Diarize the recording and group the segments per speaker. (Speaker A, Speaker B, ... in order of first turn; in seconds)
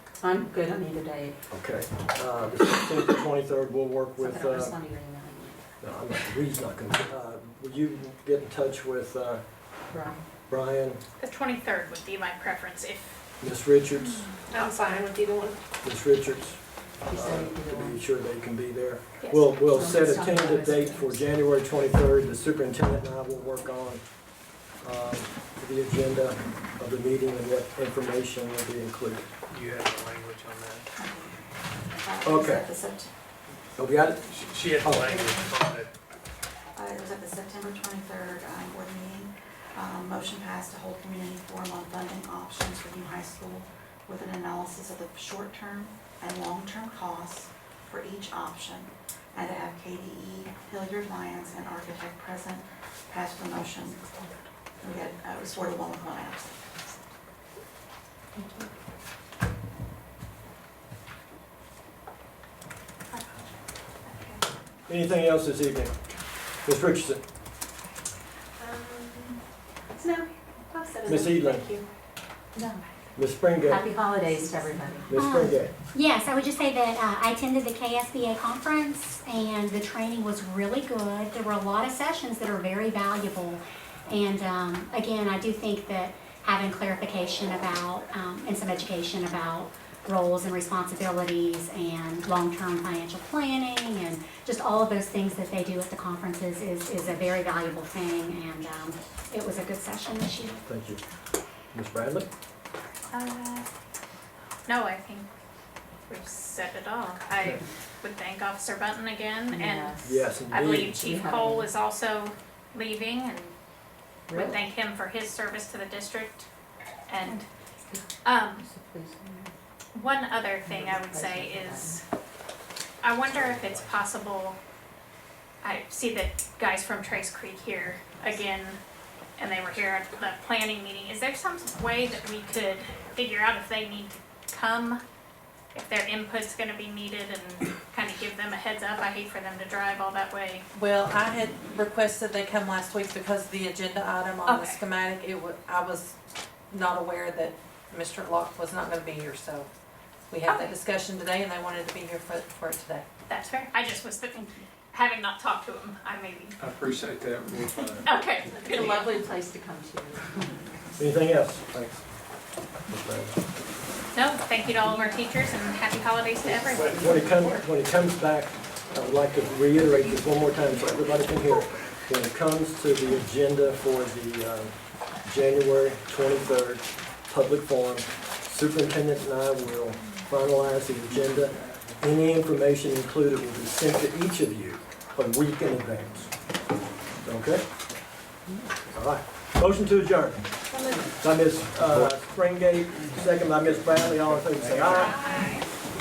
Speaker A: 0.2-1.4, 4.2-5.7, 9.9-10.2, 17.1-18.0, 19.6-21.3, 58.4-58.7, 72.6-72.8, 73.6-75.1, 109.5-110.2, 111.1-111.7, 114.3-114.6, 117.2-119.5, 120.6-122.0, 158.5-160.6, 164.8-165.2
Speaker B: 1.5-4.8, 5.8-9.6, 10.5-11.0, 13.4-14.3, 15.8-24.0, 24.8-29.3, 32.2-32.7, 33.8-35.2, 64.9-65.9, 66.7-67.2, 71.1-71.7, 73.2-73.9, 75.1-75.7, 100.7-101.0, 101.7-102.3, 110.0-111.1, 161.0-162.1, 162.9-163.4, 166.8-186.3, 187.2-187.7, 188.9-190.5, 191.2-195.2
Speaker C: 11.2-13.2, 19.2-19.6, 63.1-63.4, 64.1-64.4, 103.1-103.7, 104.7-105.3, 106.1-113.5, 114.3-116.5, 117.1-117.4, 118.2-118.7, 119.9-122.0, 123.0-124.6, 125.6-128.8, 129.4-135.0, 135.7-140.7, 144.4-144.8, 153.3-156.6, 157.6-159.2, 164.1-167.6, 194.8-195.7
Speaker D: 29.5-30.9, 34.3-35.9, 156.6-158.1, 194.6-195.0
Speaker E: 31.0-31.4, 32.0-33.1, 34.9-35.5, 36.8-54.0, 54.8-56.6
Speaker F: 75.1-100.6
Speaker G: 140.7-146.2, 146.7-149.7, 150.3-153.1